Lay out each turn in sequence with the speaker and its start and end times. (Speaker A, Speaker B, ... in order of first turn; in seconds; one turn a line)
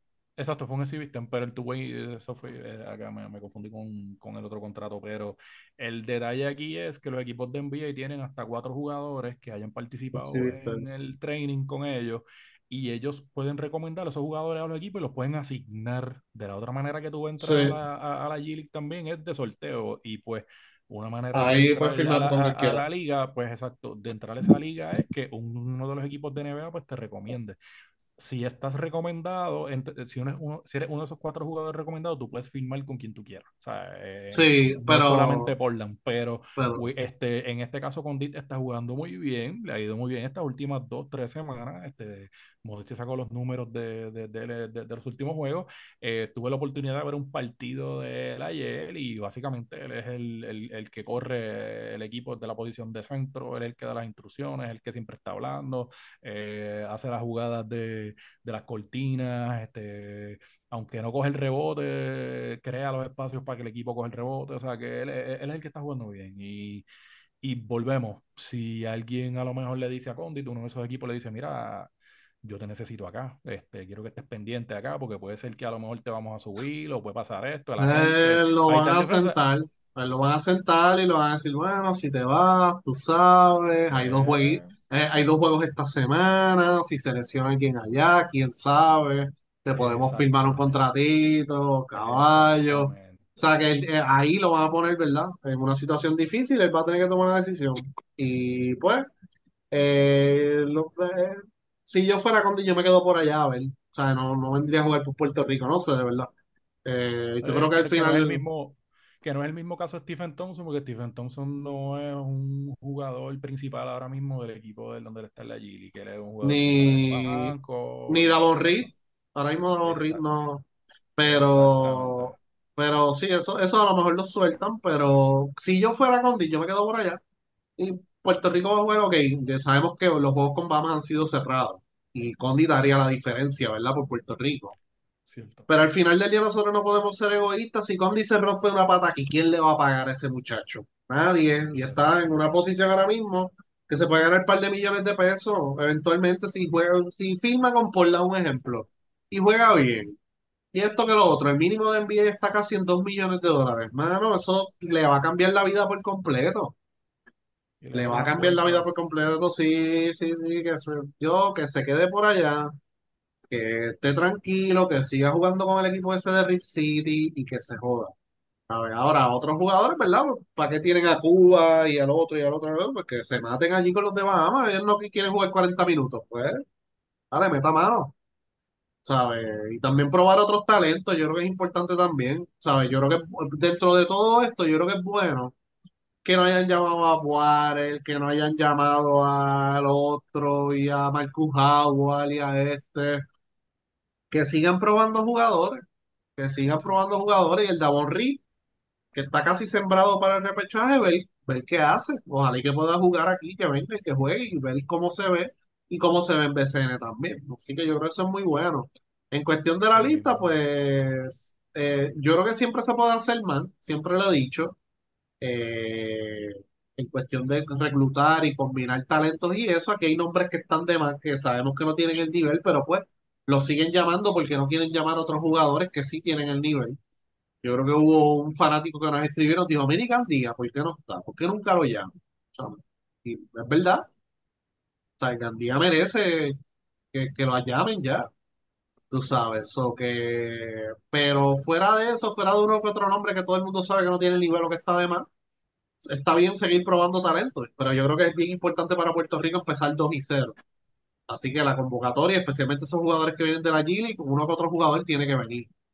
Speaker A: 0.4-27.6
Speaker B: 10.1-10.8
Speaker B: 17.4-17.7
Speaker B: 21.3-22.8
Speaker A: 28.2-66.8
Speaker B: 34.3-35.5
Speaker B: 36.6-36.8
Speaker A: 67.4-71.9
Speaker A: 72.4-79.4
Speaker B: 77.8-99.1
Speaker A: 83.9-84.8
Speaker A: 89.7-90.8
Speaker A: 91.9-93.4
Speaker B: 99.7-106.3
Speaker B: 106.8-108.4
Speaker A: 107.4-118.9
Speaker B: 116.4-117.5
Speaker B: 118.1-127.2
Speaker A: 119.8-120.3
Speaker A: 121.2-122.4
Speaker B: 127.8-134.7
Speaker A: 135.3-135.7
Speaker B: 135.7-150.2
Speaker A: 141.8-142.1
Speaker B: 150.7-156.8
Speaker A: 157.8-158.9
Speaker B: 157.9-162.7
Speaker B: 163.5-168.1
Speaker B: 168.7-176.6
Speaker B: 177.3-178.1
Speaker B: 179.1-185.5
Speaker B: 186.2-193.3
Speaker B: 194.3-195.8
Speaker B: 196.4-198.4
Speaker B: 199.1-214.8
Speaker A: 209.9-210.6
Speaker B: 215.4-227.0
Speaker B: 227.6-234.1
Speaker B: 235.2-236.6
Speaker B: 237.1-238.3
Speaker B: 239.1-245.3
Speaker B: 246.0-250.6
Speaker B: 251.3-255.7